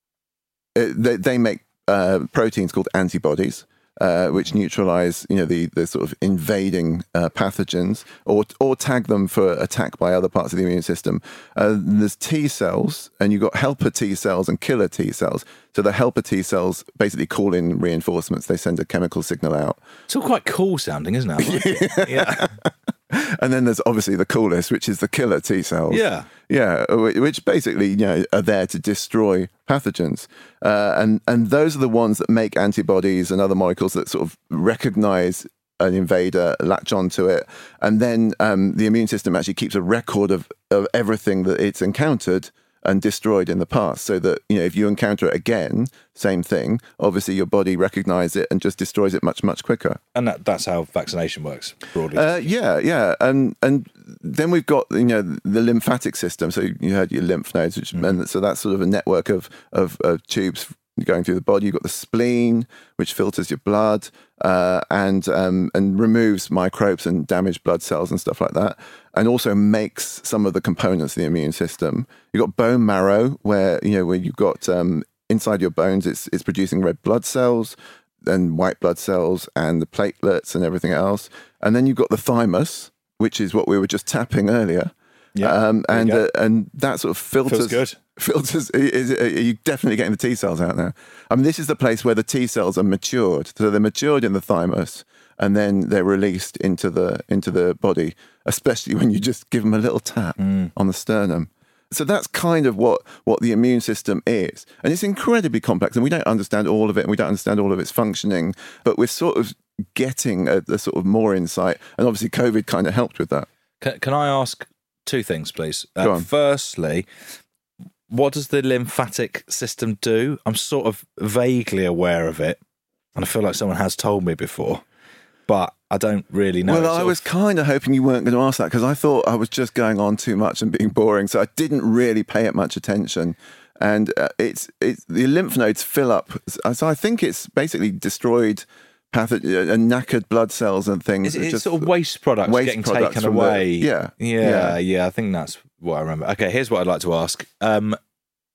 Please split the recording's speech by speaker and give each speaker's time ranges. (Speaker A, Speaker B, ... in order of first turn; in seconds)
Speaker A: 0.7-19.8, 21.4-50.0, 52.1-113.5, 116.0-116.3, 126.6-141.9, 142.4-144.8
Speaker B: 20.1-22.5, 25.9-26.3, 50.1-52.5, 85.3-86.3, 87.5-88.0, 100.4-100.7, 113.8-117.1, 118.1-122.6, 123.2-124.8, 125.5-127.2, 141.2-148.0